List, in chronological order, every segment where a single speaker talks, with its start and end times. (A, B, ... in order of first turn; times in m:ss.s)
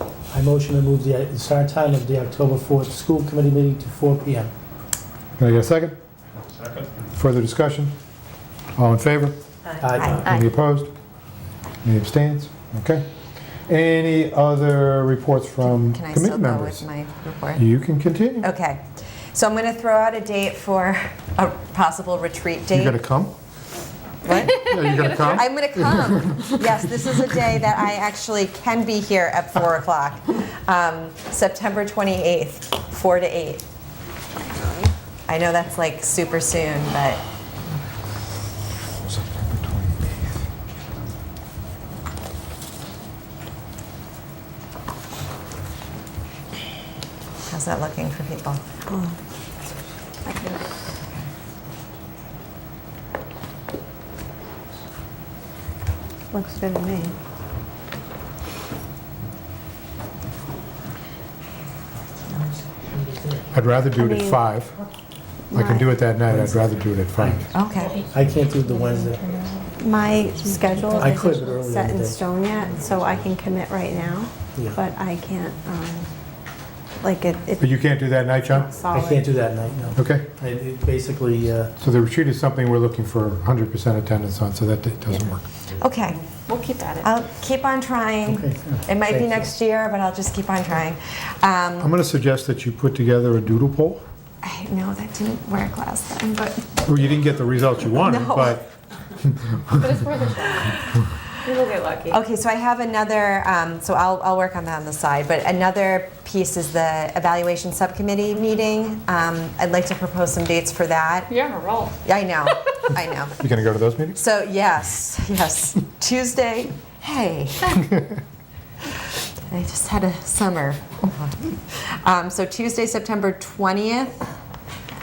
0:00.3-0:04.5 A
0:05.4-0:06.0 B
0:07.1-0:08.0 B
0:08.8-0:09.4 B
0:09.8-0:10.3 A
0:10.1-0:10.9 B
0:10.2-0:10.5 C
0:11.8-0:13.1 B
0:13.7-0:16.8 B
0:15.8-0:17.7 D
0:17.6-0:18.5 B
0:18.4-0:23.0 D
0:22.7-0:23.3 B
0:24.2-0:33.6 D
0:24.3-0:26.6 B
0:24.7-0:25.2 C
0:35.3-0:37.2 D
0:39.0-0:40.2 B
0:47.5-0:48.6 D
0:48.9-0:49.2 E
0:50.2-0:50.8 C
0:56.3-0:57.2 E
1:03.5-1:04.7 B
1:03.9-1:04.5 E
1:05.5-1:06.0 E
1:05.5-1:07.5 B
1:06.3-1:06.6 A
1:07.2-1:07.4 A
1:07.5-1:08.0 D
1:08.0-1:16.1 E
1:08.1-1:09.2 A
1:11.0-1:12.2 A
1:13.0-1:13.2 A
1:14.5-1:14.8 A
1:17.0-1:17.8 E
1:17.6-1:18.8 B
1:18.4-1:19.2 E
1:18.8-1:21.7 A
1:20.0-1:20.3 B
1:21.8-1:25.5 B
1:25.8-1:26.2 D
1:26.4-1:27.1 C
1:27.0-1:31.9 D
1:28.3-1:29.5 A
1:31.8-1:34.0 B
1:34.4-1:36.9 D
1:36.8-1:40.0 B
1:38.0-1:38.6 D
1:39.8-1:40.9 C
1:40.6-1:40.9 D
1:41.4-1:42.2 C
1:42.1-1:51.3 D
1:51.3-1:52.0 C
1:52.0-1:53.4 D
1:53.4-1:54.2 B
1:54.1-1:57.9 D
1:59.4-2:04.2 D